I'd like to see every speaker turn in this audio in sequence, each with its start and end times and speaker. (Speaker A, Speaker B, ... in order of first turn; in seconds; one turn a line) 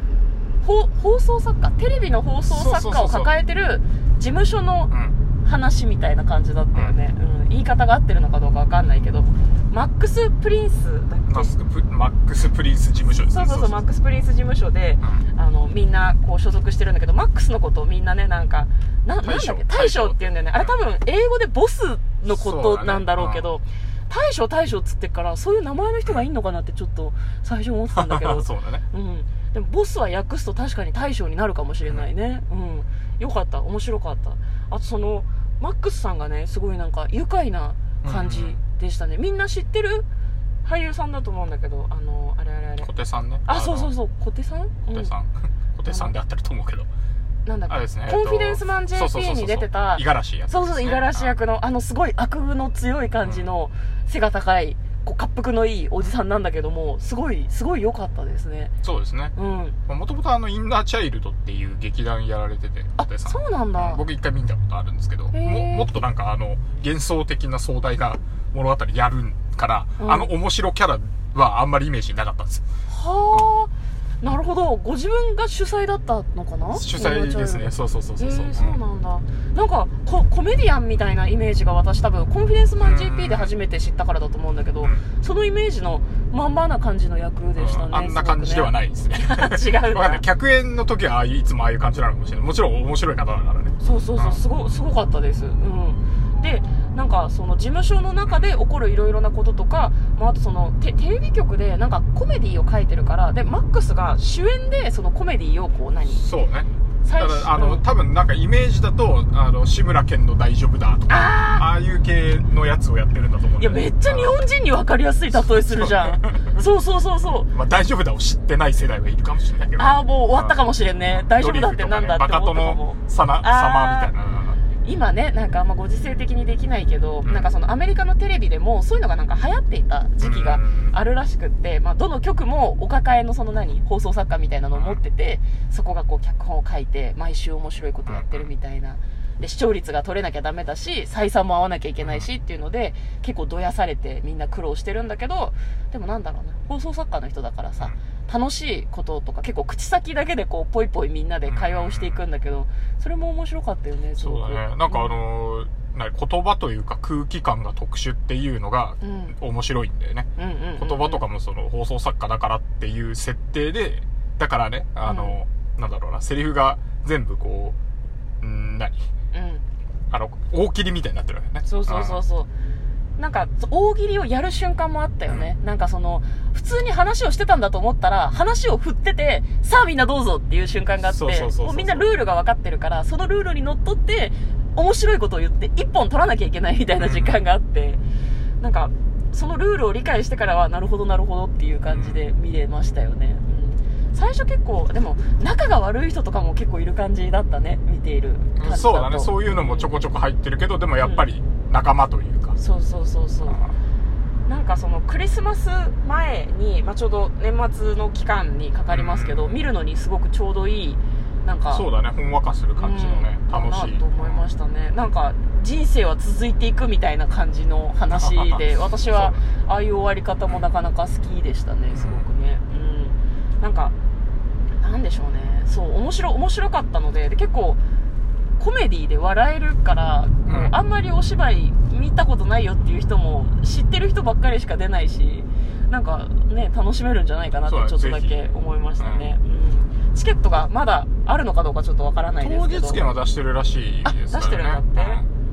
Speaker A: 0.6-4.9
Speaker B: 2.5-3.3
Speaker A: 5.4-11.5
Speaker B: 11.3-13.8
Speaker A: 13.3-40.0
Speaker B: 19.2-20.7
Speaker B: 22.3-23.5
Speaker B: 27.9-28.8
Speaker B: 38.0-38.6
Speaker A: 40.6-42.9
Speaker B: 42.8-43.9
Speaker A: 43.5-45.1
Speaker B: 44.9-46.9
Speaker A: 45.9-46.1
Speaker A: 47.4-58.7
Speaker B: 47.7-51.3
Speaker B: 53.2-53.5
Speaker B: 58.8-59.3
Speaker A: 59.4-59.8
Speaker B: 59.9-72.6
Speaker A: 63.0-64.0
Speaker A: 65.3-65.9
Speaker A: 70.0-70.3
Speaker A: 72.9-73.7
Speaker A: 74.2-90.2
Speaker B: 76.7-78.8
Speaker B: 82.8-83.5
Speaker B: 87.6-94.4
Speaker A: 93.8-106.2
Speaker B: 106.0-114.4
Speaker A: 107.0-107.8
Speaker A: 111.1-111.7
Speaker A: 113.6-117.5
Speaker B: 115.3-116.6
Speaker B: 117.5-124.6
Speaker A: 119.7-124.1
Speaker A: 124.8-155.2
Speaker B: 127.2-127.5
Speaker B: 130.2-131.0
Speaker B: 134.7-135.0
Speaker B: 138.1-138.5
Speaker B: 142.0-142.3
Speaker B: 151.4-152.2
Speaker B: 154.2-167.8
Speaker A: 159.0-159.3
Speaker A: 160.4-161.2
Speaker A: 165.0-165.3
Speaker B: 168.4-169.1
Speaker A: 169.3-169.6
Speaker B: 170.1-172.2
Speaker A: 171.6-172.5
Speaker A: 173.2-188.0
Speaker B: 181.1-182.1
Speaker B: 187.0-187.4
Speaker A: 188.6-199.9
Speaker B: 191.9-192.2
Speaker B: 198.6-202.6
Speaker A: 202.6-203.6
Speaker B: 203.4-203.7
Speaker A: 204.5-211.8
Speaker B: 208.9-209.6
Speaker B: 211.7-214.4
Speaker A: 212.8-223.9
Speaker B: 218.1-219.4
Speaker B: 221.9-222.2
Speaker A: 224.8-227.8
Speaker A: 228.6-243.0
Speaker B: 230.5-230.7
Speaker B: 237.6-239.3
Speaker B: 242.4-245.3
Speaker A: 244.0-245.2